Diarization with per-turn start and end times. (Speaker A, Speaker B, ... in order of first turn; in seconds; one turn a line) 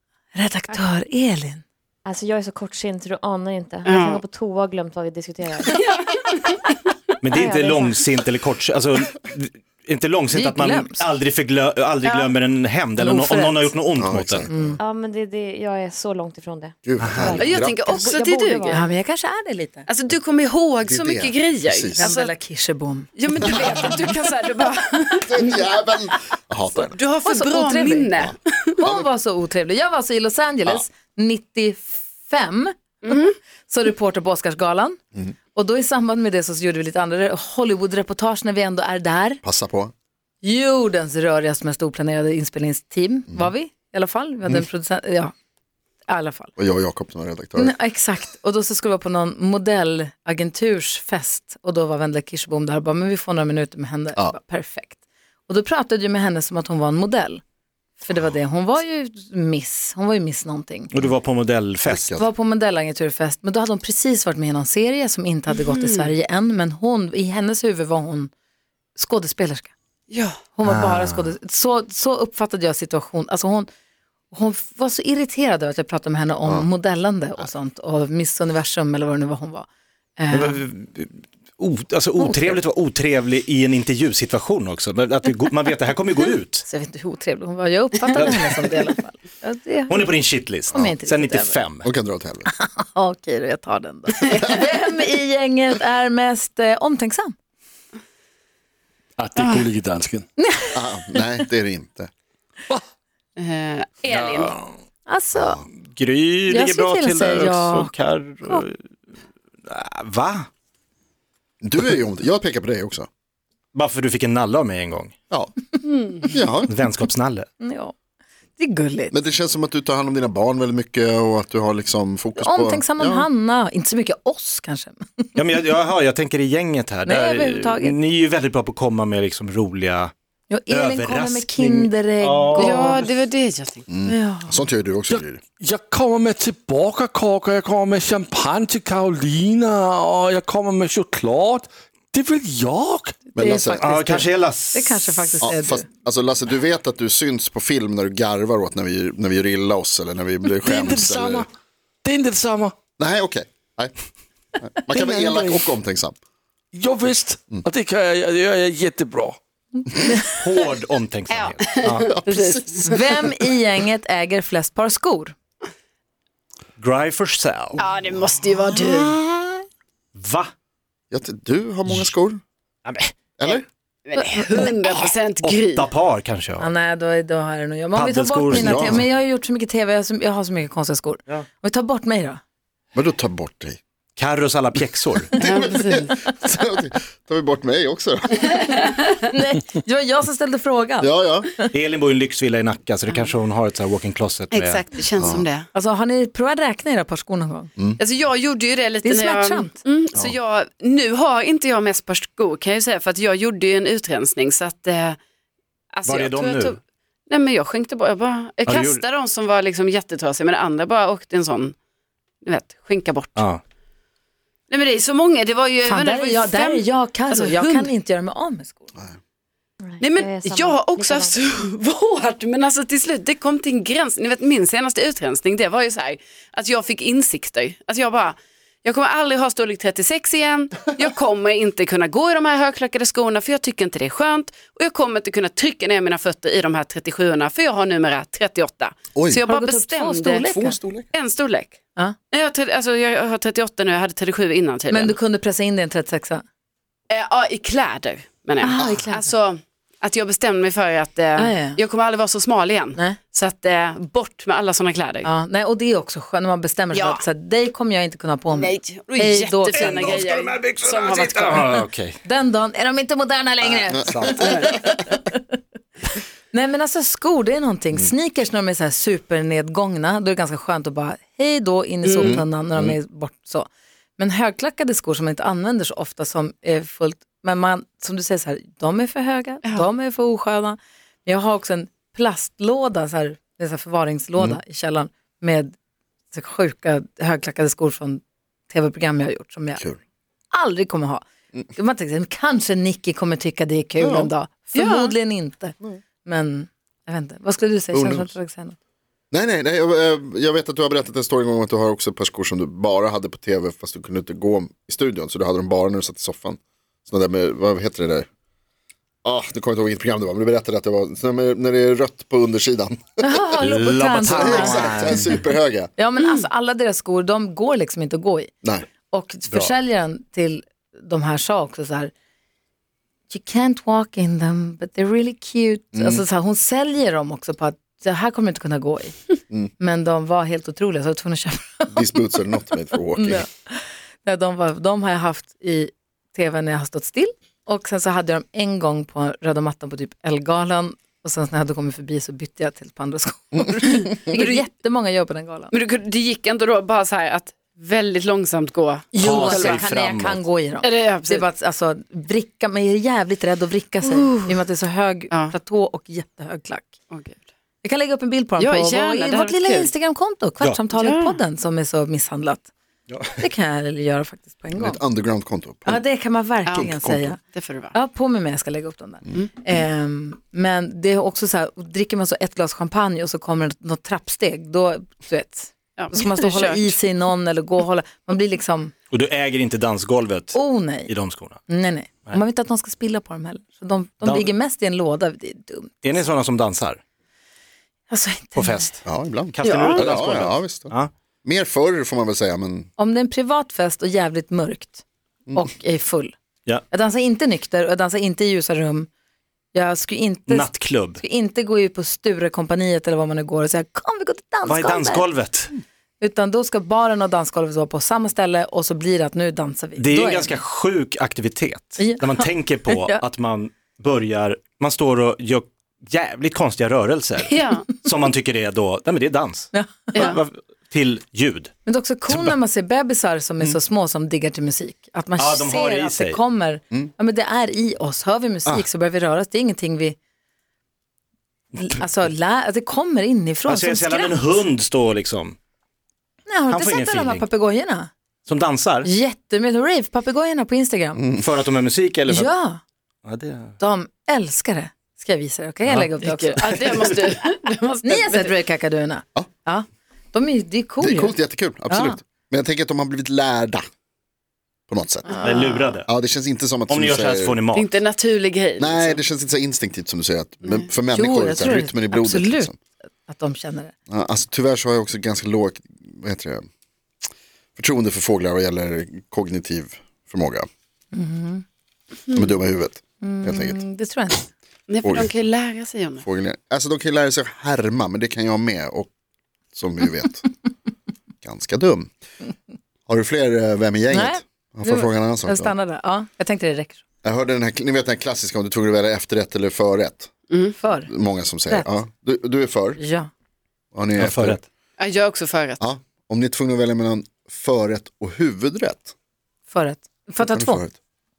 Speaker A: 0.3-1.6
Speaker B: 2.1-5.7
Speaker C: 3.9-4.2
Speaker D: 7.2-14.5
Speaker B: 7.3-7.7
Speaker A: 10.3-11.0
Speaker C: 12.0-12.3
Speaker A: 13.0-13.7
Speaker E: 14.0-14.8
Speaker A: 14.5-14.8
Speaker B: 14.8-16.8
Speaker E: 16.8-18.2
Speaker D: 17.0-17.3
Speaker C: 17.4-18.9
Speaker B: 18.1-18.7
Speaker A: 18.7-19.9
Speaker C: 19.9-22.3
Speaker E: 20.8-22.1
Speaker A: 22.0-23.1
Speaker C: 23.1-25.6
Speaker E: 25.3-27.0
Speaker C: 26.9-28.7
Speaker A: 27.2-28.1
Speaker E: 28.2-29.1
Speaker A: 28.8-35.0
Speaker C: 33.0-33.3
Speaker A: 35.5-39.4
Speaker E: 39.4-39.9
Speaker A: 40.4-45.3
Speaker A: 46.1-46.5
Speaker E: 46.6-47.8
Speaker A: 47.6-55.0
Speaker A: 55.5-57.4
Speaker A: 58.0-60.9
Speaker D: 60.9-62.0
Speaker E: 61.9-62.3
Speaker A: 62.1-68.3
Speaker C: 65.5-66.1
Speaker A: 69.0-69.7
Speaker C: 70.1-70.4
Speaker A: 70.6-73.7
Speaker D: 70.6-71.3
Speaker A: 74.3-79.7
Speaker A: 80.2-80.6
Speaker D: 80.3-86.7
Speaker A: 82.2-82.6
Speaker A: 86.7-90.1
Speaker D: 88.2-88.5
Speaker D: 89.9-91.9
Speaker A: 90.7-91.6
Speaker E: 91.8-92.5
Speaker A: 92.5-97.3
Speaker F: 99.2-100.3
Speaker A: 100.4-100.8
Speaker E: 100.7-102.1
Speaker C: 103.4-104.5
Speaker F: 104.1-104.4
Speaker A: 105.1-105.6
Speaker E: 105.3-105.7
Speaker D: 105.9-108.8
Speaker A: 106.5-107.9
Speaker D: 109.7-110.5
Speaker E: 111.6-113.1
Speaker D: 113.7-115.2
Speaker C: 115.9-116.2
Speaker E: 116.2-116.7
Speaker D: 116.7-117.5
Speaker A: 117.6-118.0
Speaker A: 118.6-119.2
Speaker E: 119.1-123.3
Speaker A: 122.4-125.4
Speaker D: 125.4-130.1
Speaker A: 127.0-128.0
Speaker A: 130.5-133.1
Speaker D: 130.7-133.0
Speaker C: 132.6-133.8
Speaker E: 133.9-135.4
Speaker A: 134.1-134.7
Speaker F: 135.1-143.2
Speaker A: 143.3-145.8
Speaker E: 143.3-143.9
Speaker D: 143.8-145.3
Speaker E: 145.4-151.5
Speaker F: 150.6-151.5
Speaker F: 152.0-152.8
Speaker E: 153.0-153.9
Speaker E: 154.6-156.2
Speaker F: 155.0-155.7
Speaker F: 156.7-159.4
Speaker A: 160.0-160.4
Speaker D: 160.4-162.1
Speaker C: 161.3-163.0
Speaker E: 162.1-163.2
Speaker A: 162.9-165.3
Speaker D: 166.8-167.8
Speaker C: 167.8-169.2
Speaker D: 170.2-170.5
Speaker E: 171.1-172.4
Speaker D: 172.8-173.1
Speaker E: 173.4-173.7
Speaker C: 173.4-175.9
Speaker A: 174.1-174.8
Speaker D: 175.4-176.7
Speaker A: 176.6-182.4
Speaker D: 177.9-179.0
Speaker E: 178.5-179.0
Speaker E: 182.9-183.8
Speaker D: 184.2-185.3
Speaker E: 185.4-188.8
Speaker C: 185.4-186.1
Speaker A: 189.2-191.7
Speaker E: 191.0-191.5
Speaker D: 191.7-194.8
Speaker C: 193.1-193.4
Speaker C: 194.5-195.7
Speaker E: 195.2-195.4
Speaker A: 195.7-197.7
Speaker C: 198.0-205.2
Speaker A: 199.0-199.8
Speaker C: 205.9-211.8
Speaker D: 206.1-206.8
Speaker D: 208.7-209.0
Speaker C: 212.4-213.4
Speaker D: 213.4-213.6
Speaker C: 214.7-217.9
Speaker A: 215.8-218.9
Speaker B: 219.9-221.2
Speaker C: 220.0-240.6
Speaker E: 239.2-239.4
Speaker A: 239.4-240.8
Speaker E: 240.4-241.1
Speaker C: 241.1-241.8
Speaker C: 242.3-245.2
Speaker A: 244.9-246.4
Speaker C: 247.1-255.3
Speaker A: 248.6-249.2
Speaker E: 248.8-249.1
Speaker A: 251.4-251.8
Speaker A: 255.2-260.2
Speaker C: 256.9-257.2
Speaker C: 258.5-261.8
Speaker D: 259.7-262.2
Speaker A: 262.2-265.5
Speaker E: 264.0-264.3
Speaker D: 264.1-264.4
Speaker C: 264.4-264.7
Speaker A: 266.5-285.7
Speaker C: 272.0-272.4
Speaker E: 272.2-273.0
Speaker A: 286.3-289.8
Speaker A: 290.5-298.8
Speaker E: 294.0-294.3
Speaker C: 294.8-295.2
Speaker E: 297.9-298.3
Speaker E: 299.3-308.3
Speaker E: 309.2-313.2
Speaker A: 313.2-315.4
Speaker D: 313.6-315.2
Speaker E: 314.3-315.9
Speaker A: 316.0-318.5
Speaker A: 319.1-322.1
Speaker A: 323.3-329.2
Speaker E: 325.9-326.2
Speaker A: 329.8-332.1
Speaker E: 331.9-333.4
Speaker A: 333.1-345.7
Speaker C: 345.7-349.8
Speaker A: 349.1-356.9
Speaker D: 349.2-350.4
Speaker C: 350.8-351.4
Speaker C: 354.0-354.5
Speaker C: 357.1-357.4
Speaker A: 357.8-362.7
Speaker C: 358.6-359.9
Speaker C: 361.0-361.4
Speaker A: 363.4-365.0
Speaker E: 364.8-366.0
Speaker A: 365.9-367.4
Speaker C: 366.7-366.9
Speaker E: 366.8-367.4
Speaker C: 367.5-367.9
Speaker A: 367.9-378.9
Speaker C: 376.0-376.9
Speaker D: 379.1-381.6
Speaker A: 380.5-381.1
Speaker A: 381.7-386.2
Speaker D: 384.2-384.5
Speaker D: 386.0-387.0
Speaker A: 388.1-388.9
Speaker D: 388.6-389.0
Speaker E: 389.1-390.9
Speaker D: 389.6-391.1
Speaker C: 389.6-390.1
Speaker E: 391.4-392.9
Speaker A: 393.0-396.3
Speaker A: 396.9-399.1
Speaker A: 399.7-405.3
Speaker D: 400.5-401.2
Speaker D: 404.7-405.7
Speaker A: 406.2-410.6
Speaker D: 410.0-421.7
Speaker A: 412.0-413.2
Speaker C: 417.5-417.9
Speaker A: 419.7-420.3
Speaker A: 421.9-430.2
Speaker D: 422.3-422.5
Speaker D: 425.4-426.4
Speaker A: 431.8-434.6
Speaker D: 433.7-435.6
Speaker A: 436.5-438.1
Speaker D: 436.7-437.4
Speaker D: 438.5-439.1
Speaker A: 439.0-441.2
Speaker E: 441.2-441.4
Speaker D: 441.4-442.5
Speaker A: 442.3-442.8
Speaker D: 443.2-443.7
Speaker A: 443.8-447.1
Speaker C: 446.2-448.5
Speaker A: 448.1-451.4
Speaker E: 451.0-453.9
Speaker A: 451.9-452.2
Speaker E: 454.9-455.4
Speaker C: 455.3-455.9
Speaker D: 455.4-456.1
Speaker E: 456.1-457.6
Speaker D: 456.9-457.9
Speaker C: 457.7-459.2
Speaker E: 458.8-462.8
Speaker A: 461.1-462.7
Speaker A: 463.2-463.9
Speaker E: 464.1-466.7
Speaker E: 467.8-470.7
Speaker A: 471.1-471.6
Speaker E: 472.3-473.8
Speaker A: 473.2-474.5
Speaker C: 474.9-476.2
Speaker E: 475.0-475.3
Speaker E: 476.2-479.1
Speaker E: 479.7-480.5
Speaker E: 481.4-482.1
Speaker E: 483.1-485.7
Speaker A: 484.1-487.0
Speaker E: 487.2-490.3
Speaker A: 490.8-491.1
Speaker E: 491.1-493.0
Speaker A: 493.0-493.3
Speaker E: 493.9-494.6
Speaker D: 494.2-494.6
Speaker C: 495.0-495.8
Speaker E: 495.8-499.1
Speaker A: 499.7-500.8
Speaker E: 500.4-500.9